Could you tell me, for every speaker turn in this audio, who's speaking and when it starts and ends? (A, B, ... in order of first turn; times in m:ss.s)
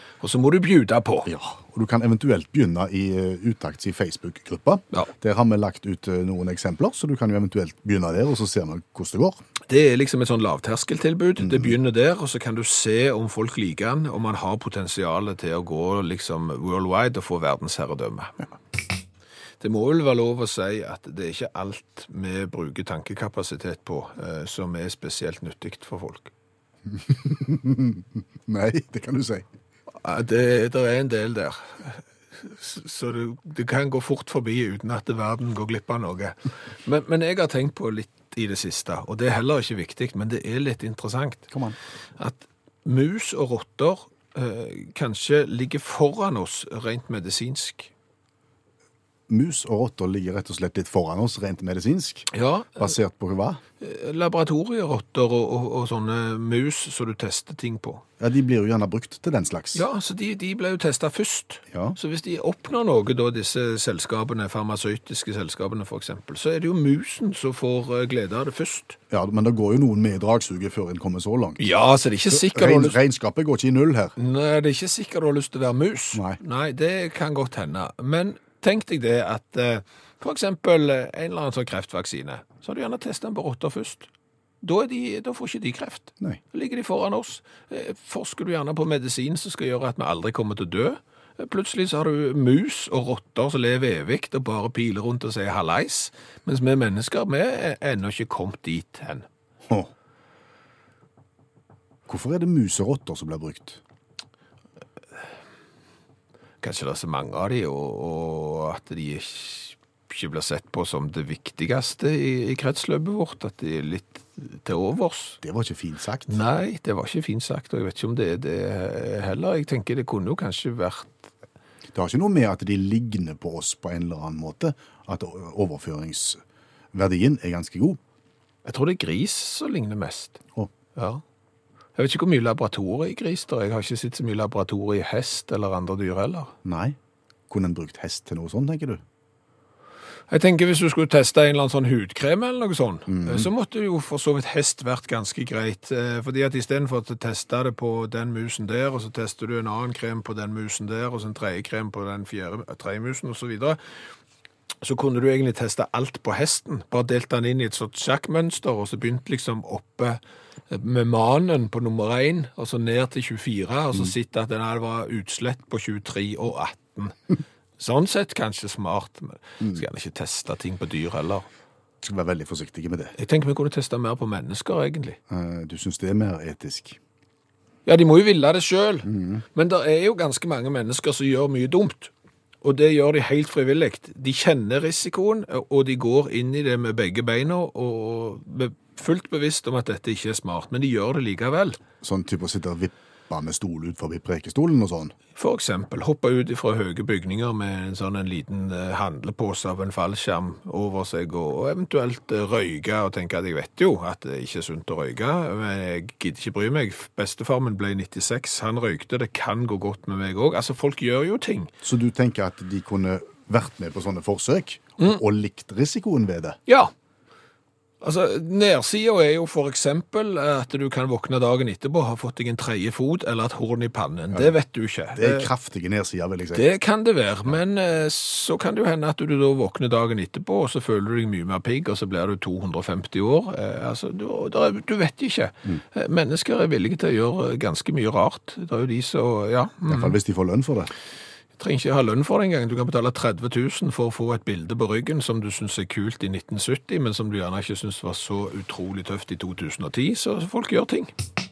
0:00.2-0:01.3 A
0:01.3-0:09.4 B
0:09.7-0:18.5 A
0:11.4-0:11.7 B
0:19.6-0:26.3 A
0:26.9-0:29.5 B
0:30.0-0:41.5 A
0:41.5-0:41.8 B
0:42.2-0:47.9 A
0:49.3-0:53.6 B
0:52.3-0:52.9 A
0:53.8-0:58.0 A
0:58.2-0:59.8 B
0:59.7-1:09.0 A
1:01.7-1:02.0 B
1:09.1-1:11.7 B
1:11.6-1:13.0 A
1:12.3-1:14.2 B
1:14.2-1:24.1 A
1:24.6-1:39.3 A
1:42.1-1:43.8 B
1:46.6-1:55.4 A
1:55.4-1:56.4 B
1:56.3-2:01.3 A
2:01.9-2:06.4 B
2:06.9-2:08.0 B
2:08.6-2:10.4 A
2:11.0-2:11.2 A
2:12.0-2:16.5 A
2:16.6-2:17.0 B
2:17.5-2:19.0 B
2:20.3-2:33.8 A
2:23.1-2:23.5 B
2:34.8-2:47.2 A
2:47.8-2:51.5 A
2:52.0-2:53.1 B
2:53.2-2:55.2 A
2:55.3-2:57.0 B
2:57.9-3:02.1 A
2:59.1-2:59.4 B
3:02.6-3:11.8 A
3:12.0-3:15.2 B
3:15.4-3:31.7 A
3:31.8-3:36.6 B
3:36.7-3:36.9 A
3:38.0-3:45.5 A
3:45.2-3:46.6 B
3:46.5-4:00.2 A
3:59.9-4:00.9 B
4:01.6-4:11.1 A